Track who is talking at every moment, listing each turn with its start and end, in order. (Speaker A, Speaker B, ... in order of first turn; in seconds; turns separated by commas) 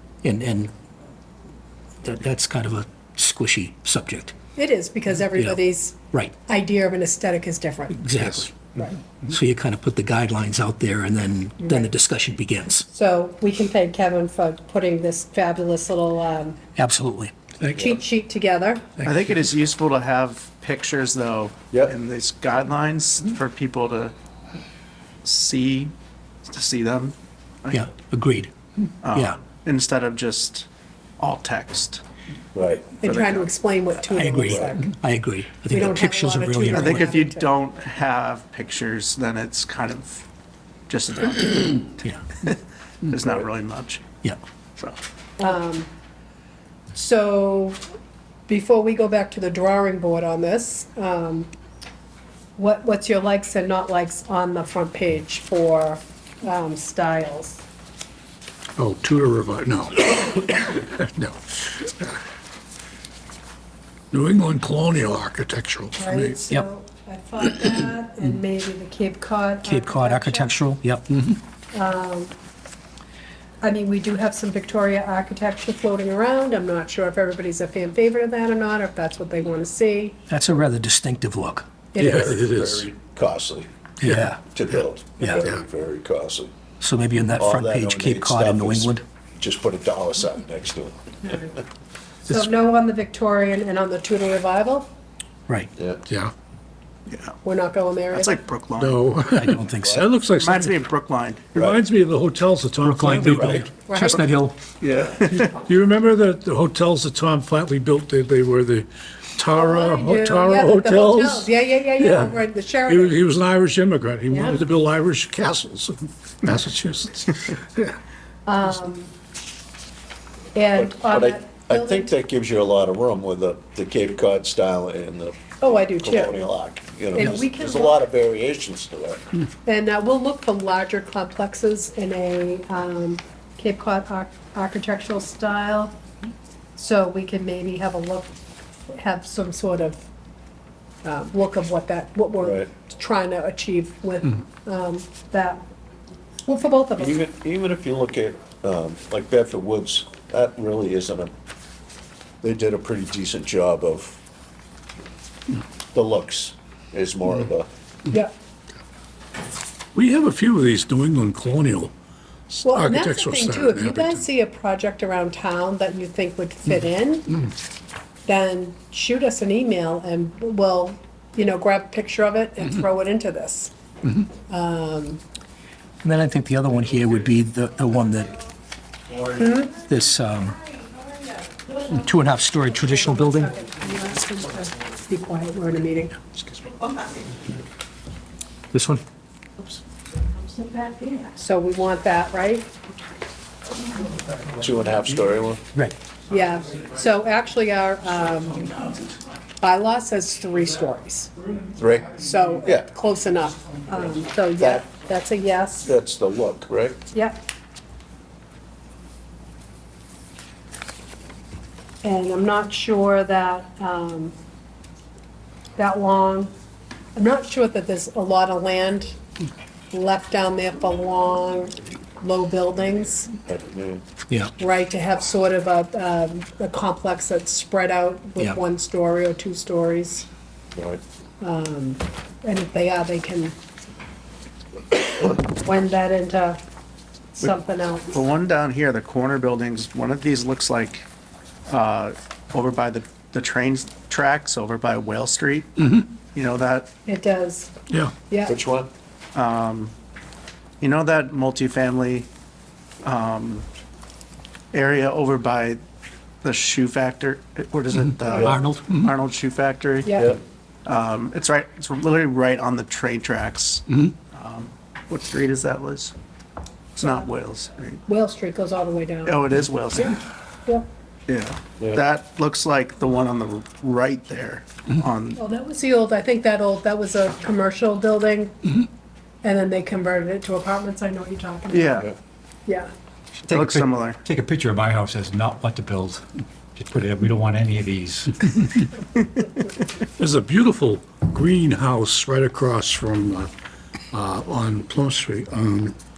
Speaker A: 0.2-0.7, Speaker A: 2.0-4.3, Speaker B: 4.6-8.1, Speaker A: 5.3-5.6, Speaker A: 7.9-8.7, Speaker B: 8.7-9.0, Speaker A: 9.3-12.8, Speaker B: 11.6-11.9, Speaker B: 12.9-16.6, Speaker A: 16.8-17.7, Speaker B: 17.7-18.9, Speaker C: 19.0-24.1, Speaker C: 25.2-25.9, Speaker C: 26.5-27.9, Speaker A: 27.7-28.5, Speaker C: 29.0-30.7, Speaker A: 29.1-29.4, Speaker C: 31.2-32.0, Speaker D: 32.5-32.9, Speaker B: 33.0-34.9, Speaker C: 33.0-33.5, Speaker A: 34.1-37.2, Speaker B: 35.7-37.5, Speaker C: 36.7-40.2, Speaker C: 40.9-44.1, Speaker B: 45.4-45.9, Speaker B: 46.9-47.8, Speaker B: 48.5-51.5, Speaker B: 52.6-57.6, Speaker E: 58.8-62.2, Speaker E: 64.1-66.4, Speaker B: 66.0-70.6, Speaker A: 69.7-71.4, Speaker B: 71.7-72.3, Speaker B: 73.6-80.2, Speaker A: 80.3-81.7, Speaker B: 81.9-82.5, Speaker E: 82.0-82.9, Speaker D: 82.0-83.7, Speaker A: 84.0-84.4, Speaker D: 84.5-86.5, Speaker B: 85.2-85.5, Speaker A: 86.8-89.0, Speaker D: 87.4-91.0, Speaker B: 91.2-91.6, Speaker B: 92.3-94.9, Speaker D: 95.8-96.0, Speaker C: 97.1-97.4, Speaker B: 97.4-98.4, Speaker C: 98.1-99.0, Speaker E: 98.8-100.7, Speaker A: 99.4-100.0, Speaker D: 99.8-100.1, Speaker C: 100.4-101.5, Speaker D: 101.5-101.8, Speaker E: 101.6-103.7, Speaker A: 102.8-104.6, Speaker B: 103.8-104.3, Speaker C: 104.8-105.5, Speaker E: 105.3-118.0, Speaker B: 109.5-113.2, Speaker B: 114.3-114.6, Speaker B: 118.5-119.1, Speaker B: 120.5-122.1, Speaker D: 120.8-129.3, Speaker B: 125.6-126.4, Speaker B: 127.1-128.0, Speaker B: 129.7-135.9, Speaker B: 136.8-138.3, Speaker B: 138.9-140.1, Speaker B: 141.0-145.6, Speaker D: 142.4-142.7, Speaker B: 146.5-147.2, Speaker D: 147.0-151.3, Speaker D: 152.4-154.2, Speaker D: 155.9-157.7, Speaker E: 159.9-161.9, Speaker E: 162.5-164.2, Speaker B: 162.7-167.4, Speaker B: 168.3-173.7, Speaker B: 174.5-175.2, Speaker A: 176.0-178.3, Speaker B: 179.3-179.8, Speaker A: 179.8-180.6, Speaker A: 181.9-183.5, Speaker B: 182.9-186.2, Speaker A: 188.7-189.0, Speaker B: 191.2-192.7, Speaker D: 194.6-195.6, Speaker B: 196.3-198.9, Speaker B: 199.6-201.3, Speaker D: 201.8-202.9, Speaker B: 202.1-205.9, Speaker D: 204.6-204.9, Speaker D: 205.8-207.0, Speaker B: 207.1-207.4, Speaker B: 212.0-214.3, Speaker B: 215.8-216.5, Speaker B: 217.2-219.2, Speaker B: 219.9-223.3, Speaker D: 223.5-224.0, Speaker B: 224.6-230.3, Speaker D: 230.8-231.0, Speaker B: 231.4-233.6, Speaker B: 235.1-236.6, Speaker B: 237.3-238.2, Speaker C: 238.1-241.1, Speaker C: 241.7-246.9, Speaker B: 247.1-247.7, Speaker B: 248.3-248.6, Speaker D: 248.5-248.9, Speaker C: 249.3-249.9, Speaker C: 250.8-252.3, Speaker C: 253.0-253.7, Speaker C: 254.7-255.8, Speaker C: 256.4-260.1, Speaker B: 258.2-258.6, Speaker A: 258.3-258.9, Speaker B: 260.0-260.4, Speaker C: 260.9-266.1, Speaker C: 266.9-268.0, Speaker B: 267.0-267.3, Speaker B: 268.1-269.4, Speaker C: 269.2-270.2, Speaker C: 271.3-275.4, Speaker B: 275.4-278.6, Speaker B: 279.4-282.1, Speaker C: 281.7-282.1, Speaker C: 283.5-284.2, Speaker F: 283.5-286.2, Speaker F: 286.8-288.4, Speaker E: 288.6-288.9, Speaker E: 290.2-293.5, Speaker E: 294.1-296.0